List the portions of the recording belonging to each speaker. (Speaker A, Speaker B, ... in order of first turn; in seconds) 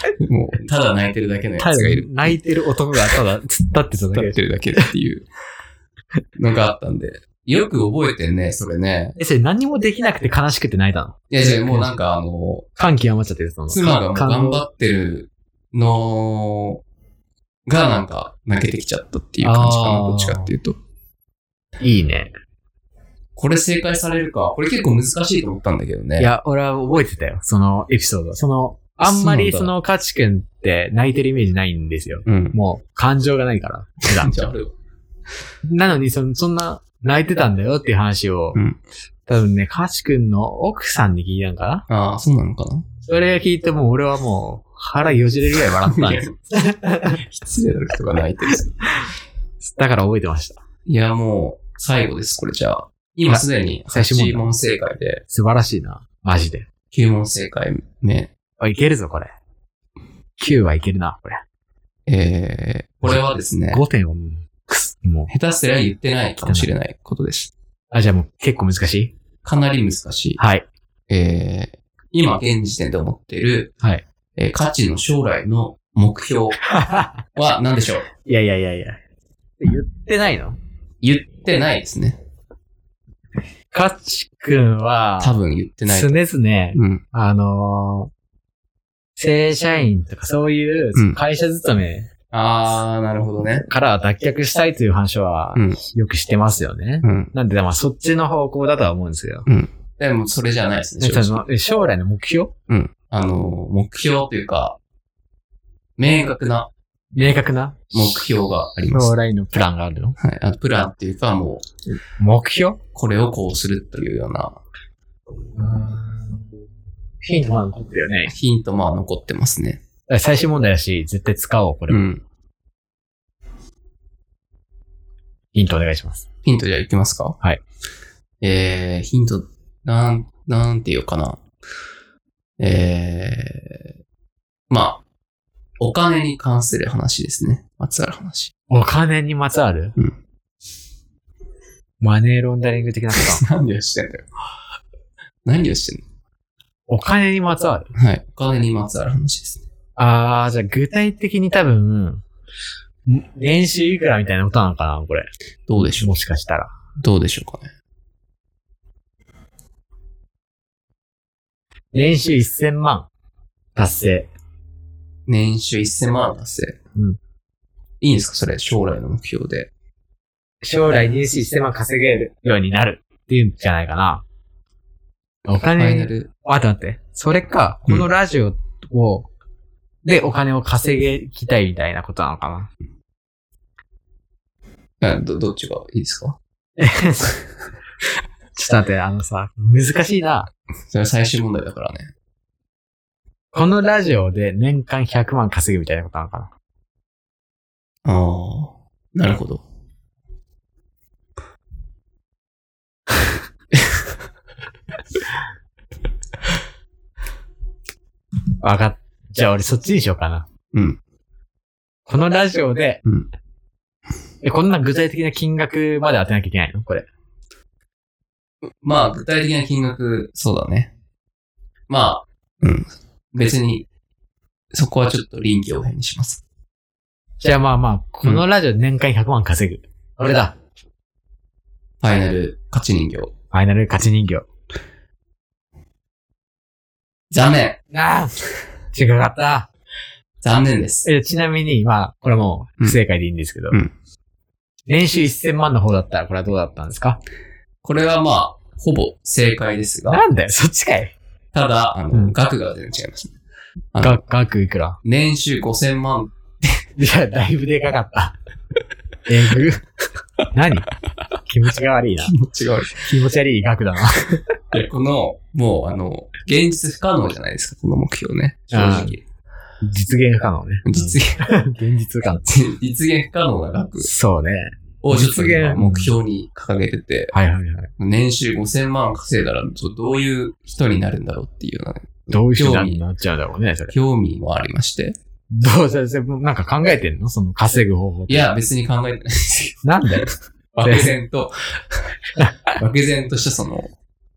Speaker A: 0.2-2.4, 4.1-5.2, 6.3-9.2, 11.3-12.7, 13.7-16.8, 17.6-20.8, 23.4-26.3, 29.0-29.7, 32.2-32.6, 34.1-34.7, 38.5-38.8, 41.9-42.8, 45.8-46.3, 47.1-48.8, 50.9-55.2, 56.9-58.3, 62.1-63.8, 65.3-67.5, 69.4-70.4, 71.1-73.7, 74.3-76.6, 77.3-78.1, 81.0-82.2, 85.2-86.1, 86.7-87.0, 92.3-93.7, 97.0-97.3, 99.5-101.4, 102.7-104.8, 106.0-106.7, 107.9-109.1, 110.2-111.6, 112.9-114.6, 118.3-119.8, 121.9-122.2, 126.4-127.4, 128.4-131.4, 132.6-133.9, 134.7-135.0, 135.8-138.5, 143.1-144.3, 145.4-146.0, 147.9-149.6, 155.7-156.1, 157.0-157.7, 165.2-166.8, 168.0-169.7, 175.7-176.3, 185.0-186.4, 190.9-192.1, 198.0-199.6, 210.7-211.0, 218.6-220.9, 221.9-223.9, 224.7-226.4, 232.0-233.3, 237.3-237.8, 240.4-241.1, 247.8-250.2, 251.5-253.3, 253.9-254.2, 255.0-256.9, 262.2-263.0, 264.7-269.2, 270.8-271.5, 272.4-274.1, 275.0-277.3, 278.0-283.0, 283.9-285.2, 288.3-292.1, 292.8-293.9
Speaker B: 1.6-4.9, 9.2-11.9, 12.7-14.6, 19.4-20.5, 21.8-22.3, 26.2-34.4, 35.6-38.6, 39.3-41.8, 43.0-47.2, 49.6-50.6, 53.3-54.5, 55.3-56.6, 58.6-59.3, 60.4-61.4, 63.7-65.3, 66.4-66.7, 67.9-69.1, 70.4-70.7, 76.6-77.2, 78.2-79.0, 79.6-80.6, 83.7-85.3, 85.9-88.1, 89.2-92.1, 93.6-99.5, 101.0-102.5, 107.1-110.2, 112.2-112.8, 115.5-116.4, 117.2-118.3, 120.1-122.0, 125.5-126.2, 138.7-140.0, 142.0-143.4, 146.9-147.9, 150.0-152.2, 153.1-155.3, 156.0-156.7, 161.9-163.1, 163.7-164.3, 170.6-174.2, 175.4-179.3, 180.0-182.7, 186.8-187.5, 188.5-190.5, 193.5-196.5, 208.6-210.5, 212.1-213.0, 214.4-217.1, 227.4-230.6, 233.5-234.5, 237.9-238.4, 238.9-239.7, 241.0-243.8, 244.8-247.2, 250.1-251.1, 254.0-255.0, 257.0-258.4, 259.2-259.9, 260.5-260.9, 261.4-262.4, 262.9-264.6, 268.7-269.2, 269.8-272.5, 274.0-276.2, 277.3-277.9, 282.3-283.9, 285.5-288.4, 289.8-290.3, 290.8-291.1